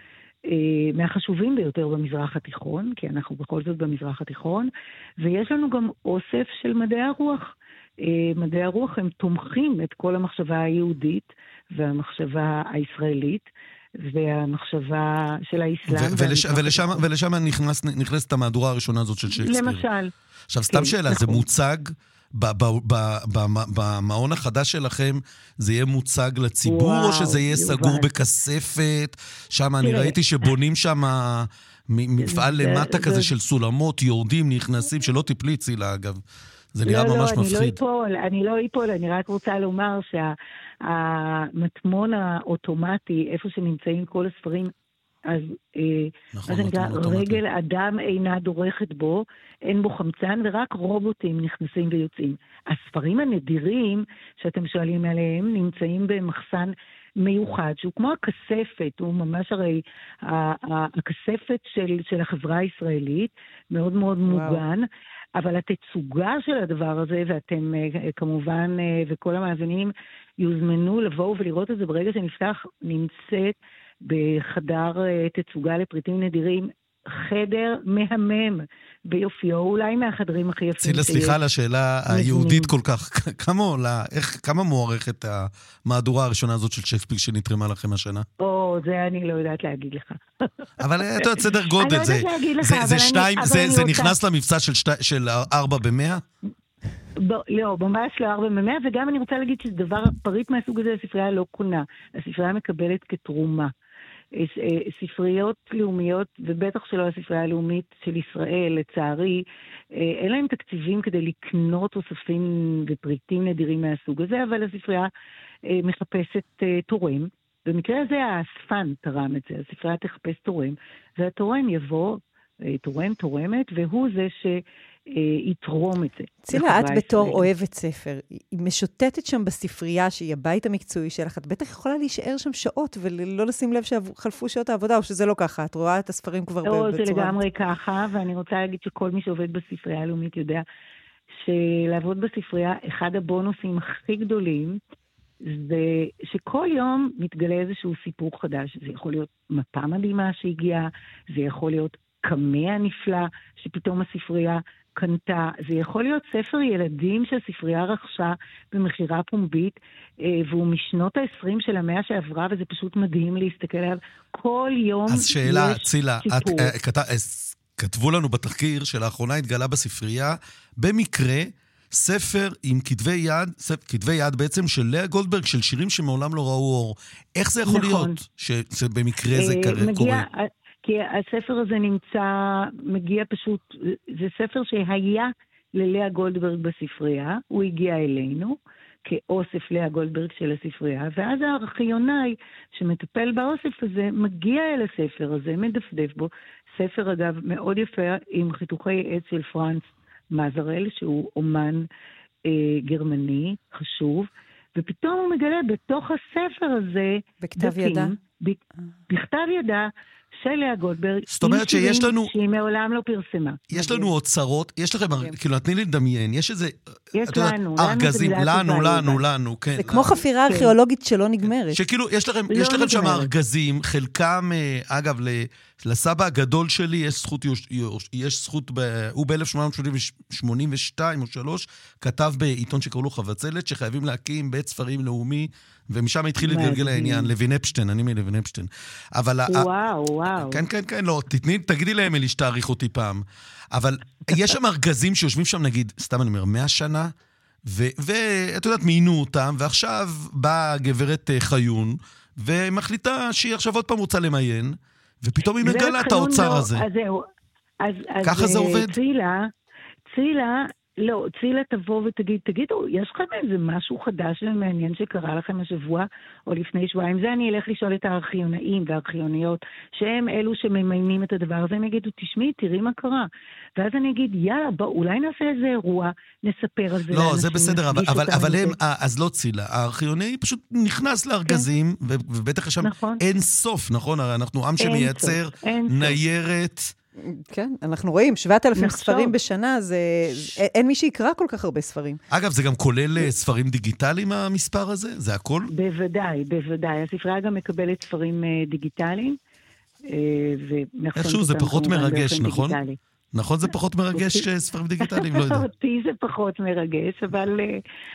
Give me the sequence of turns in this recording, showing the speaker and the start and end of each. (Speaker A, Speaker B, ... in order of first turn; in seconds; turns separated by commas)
Speaker A: 0.5-13.5, Speaker A: 14.0-17.0, Speaker B: 15.9-19.9, Speaker A: 19.3-20.1, Speaker B: 20.5-36.2, Speaker A: 20.7-21.4, Speaker A: 26.6-28.1, Speaker A: 29.8-30.5, Speaker A: 32.2-33.3, Speaker B: 36.7-37.8, Speaker A: 36.9-44.7, Speaker A: 45.2-81.3, Speaker B: 46.3-47.4, Speaker C: 64.2-64.6, Speaker B: 80.8-88.2, Speaker A: 82.1-82.7, Speaker A: 88.4-94.2, Speaker B: 90.8-96.2, Speaker A: 97.2-103.7, Speaker A: 104.3-115.1, Speaker A: 115.6-127.5, Speaker C: 126.5-137.3, Speaker A: 136.6-140.6, Speaker A: 141.4-144.8, Speaker A: 145.4-166.7, Speaker B: 165.1-180.2, Speaker A: 177.7-178.2, Speaker A: 179.3-201.8, Speaker A: 202.4-209.9, Speaker C: 207.4-208.1, Speaker A: 210.4-214.1, Speaker B: 211.3-212.3, Speaker B: 213.7-220.2, Speaker A: 217.1-219.2, Speaker C: 219.8-221.8, Speaker B: 221.7-239.7, Speaker A: 222.5-223.3, Speaker A: 236.4-237.3, Speaker A: 239.5-240.6, Speaker B: 240.4-247.1, Speaker B: 247.6-256.8, Speaker A: 255.6-257.2, Speaker A: 257.8-259.5, Speaker B: 258.2-259.0, Speaker A: 260.1-278.8, Speaker B: 277.1-286.9, Speaker A: 282.8-283.2, Speaker A: 284.8-286.2, Speaker C: 287.2-292.2, Speaker A: 288.8-289.3, Speaker B: 292.3-295.7, Speaker A: 295.7-299.4, Speaker A: 300.1-303.0, Speaker B: 301.1-302.8, Speaker B: 303.3-305.6, Speaker A: 304.1-304.4, Speaker A: 305.0-307.8